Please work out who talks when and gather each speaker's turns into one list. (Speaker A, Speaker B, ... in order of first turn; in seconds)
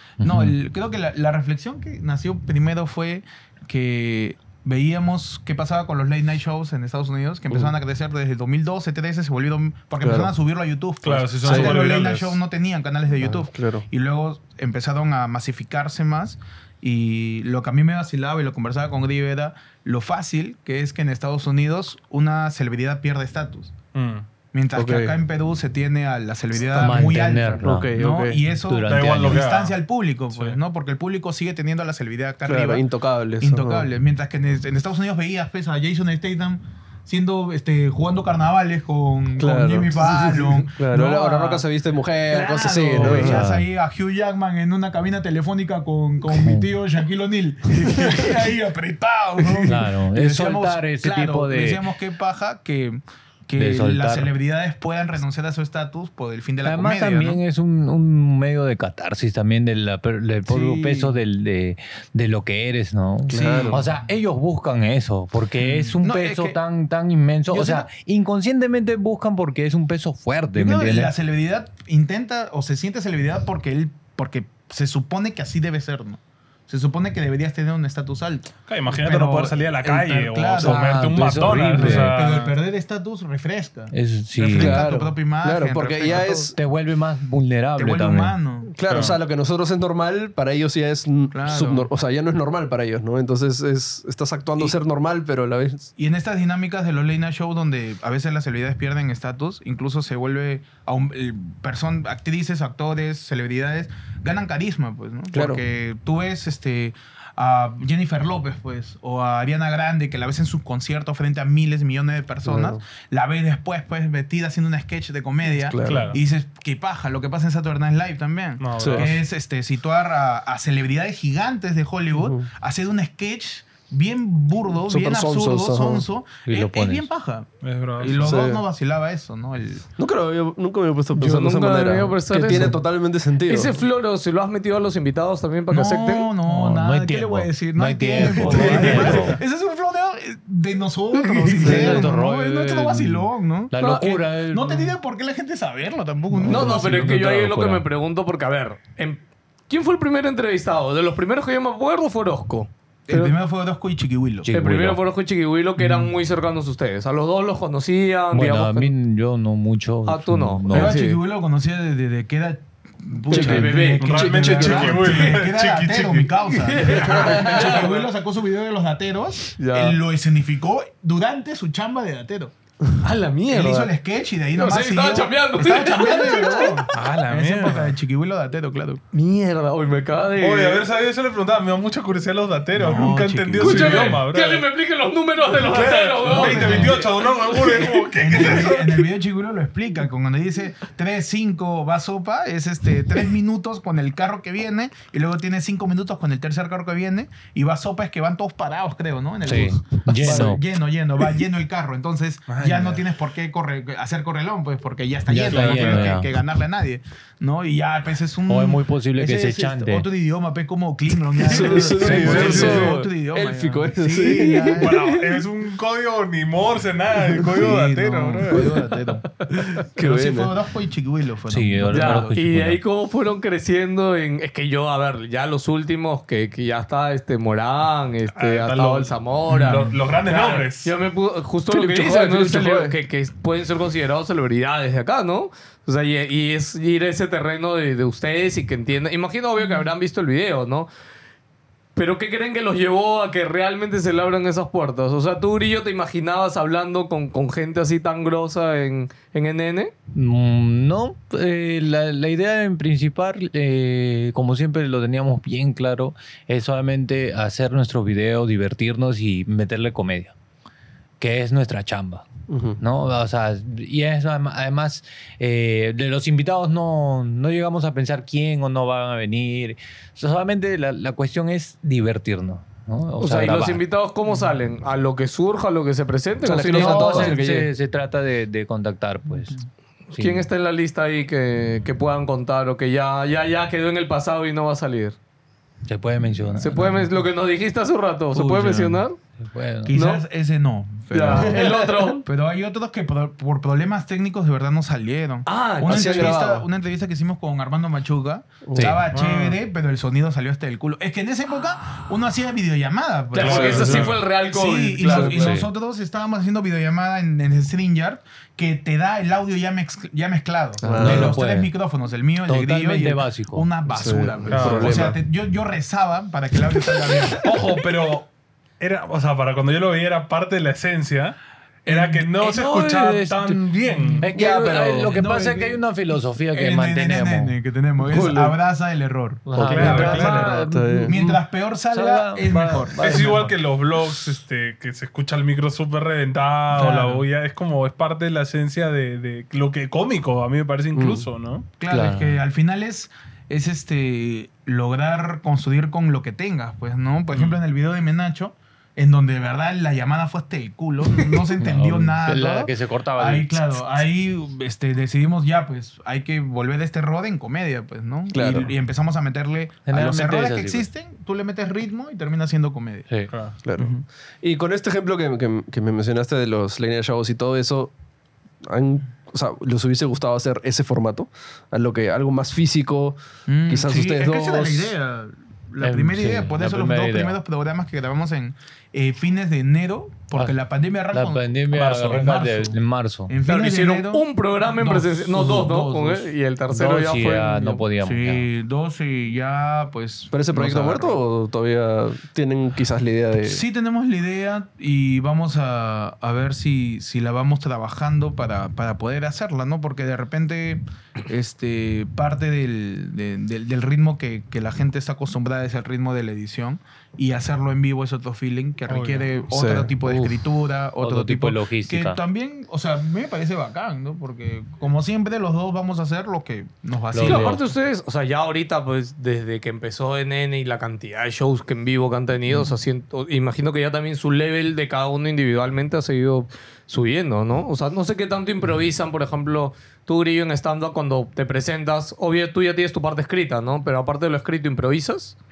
Speaker A: 0.2-0.5, 26.7-27.9, 28.7-29.5, 43.0-43.7, 46.3-46.7, 49.6-51.8, 53.5-54.3, 56.6-71.1, 80.6-82.2, 83.9-84.8, 86.5-88.3, 126.5-127.1, 136.4-139.4, 141.5-144.9, 146.3-147.8, 154.4-155.0, 158.3-161.0, 199.4-200.6, 205.3-206.3, 208.5-210.1, 212.0-212.8, 221.5-222.8, 250.1-260.3, 261.2-262.3, 262.8-273.8, 276.6-279.6, 280.1-280.5, 285.9-287.1, 289.4-289.9, 298.7-299.0, 305.4-305.7, 310.9-311.7, 312.5-313.7, 314.7-315.1, 322.3-323.7, 324.2-327.5, 329.5-333.6, 341.9-342.4, 351.6-353.8, 359.9-360.9, 375.8-377.4, 381.1-383.3, 386.7-388.5, 410.0-410.4, 411.0-412.2, 417.1-417.6
Speaker B: 0.2-23.7, 24.5-32.8, 33.4-41.6, 42.3-57.4, 60.5-61.1, 63.3-63.9, 65.6-66.6, 67.5-67.9, 70.5-81.0, 81.7-86.5, 87.8-88.7, 91.3-91.9, 96.0-127.5, 128.0-129.8, 135.7-147.2, 153.1-154.5, 155.8-156.1, 160.7-172.5, 173.5-179.0, 182.7-184.2, 186.2-187.1, 188.1-215.1, 217.5-222.3, 229.5-229.9, 289.9-291.6, 292.2-317.5, 321.9-322.2, 324.0-325.8, 326.5-333.5, 336.7-337.2, 341.8-363.1, 363.8-364.0, 373.5-384.2, 384.8-386.3, 388.0-391.2, 393.4-417.6
Speaker C: 10.0-10.3, 11.4-11.8, 13.5-13.8, 24.7-25.2, 27.6-28.4, 32.5-33.9, 39.4-43.4, 63.3-63.8, 84.5-86.6, 88.7-95.9, 105.3-105.6, 112.4-112.8, 115.5-116.1, 118.8-119.1, 122.1-122.5, 124.8-126.0, 128.2-128.6, 130.0-133.8, 138.4-139.0, 141.5-142.0, 163.3-165.2, 200.3-200.5, 211.4-214.8, 219.9-220.5, 231.7-232.9, 262.5-262.8, 276.4-277.7, 291.4-291.9, 295.8-296.6, 298.7-299.0, 303.5-304.0, 305.0-305.6, 310.8-311.3, 313.9-315.2, 329.6-331.1, 340.9-341.3, 358.3-358.7, 363.6-367.9, 368.7-373.2, 373.7-374.9, 390.3-393.6, 409.5-409.9
Speaker D: 11.0-12.4, 23.9-24.2, 28.9-29.8, 30.3-30.6, 78.7-82.5, 88.8-89.2, 115.8-116.2, 118.6-119.2, 127.6-128.4, 164.0-167.5, 176.9-177.9, 180.4-184.6, 185.7-189.1, 202.5-203.0, 205.5-206.2, 211.9-213.0, 214.8-218.7, 228.3-230.9, 299.1-299.6, 303.4-304.2, 314.5-315.0, 317.4-324.3, 329.6-330.5, 333.0-341.7, 347.3-347.6, 363.3-363.6, 408.9-409.3
Speaker E: 131.1-132.8, 133.4-136.3, 138.4-139.1, 146.5-153.3, 154.5-158.9, 160.1-161.2, 163.3-164.8, 166.5-168.1, 169.6-170.0, 173.0-173.9, 174.5-176.8, 179.1-180.9, 183.6-187.8, 221.9-240.9, 241.9-249.9, 273.2-277.4, 280.1-285.1, 286.6-289.2, 289.9-290.2, 291.1-292.2, 295.4-296.4, 303.3-305.5, 328.1-328.5, 383.5-387.8, 417.2-435.4